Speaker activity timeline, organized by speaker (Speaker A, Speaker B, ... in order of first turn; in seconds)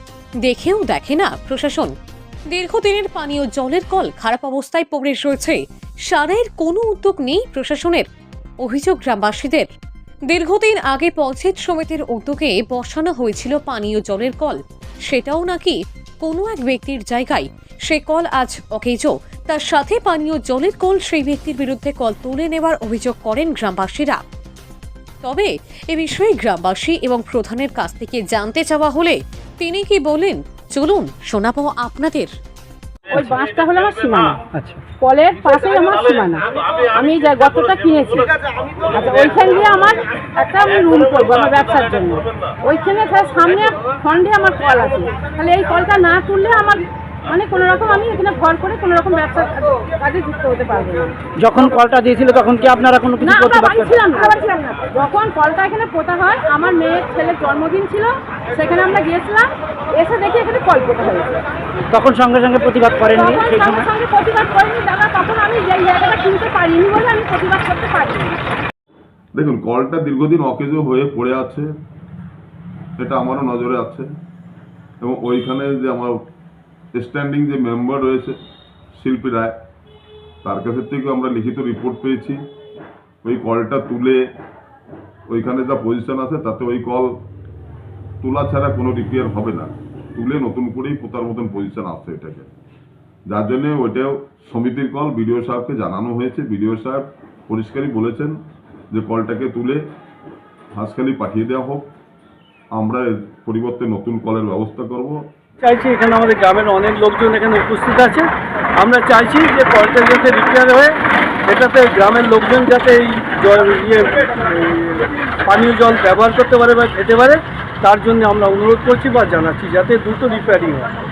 Speaker A: 0.4-1.9, 2.5-8.0, 8.6-9.7, 10.3-24.2, 25.2-32.3
Speaker B: 33.1-34.4, 35.0-51.1, 53.2-61.4, 63.1-68.4
Speaker C: 51.4-53.9, 61.9-63.8
Speaker D: 69.3-71.7, 73.0-74.1, 75.0-76.2, 76.9-78.4, 78.9-79.6, 80.4-82.4, 83.2-84.3, 85.3-87.2, 88.2-92.5, 93.3-98.3, 98.9-99.8, 100.7-101.9, 102.7-105.2
Speaker E: 105.6-110.9, 111.5-120.9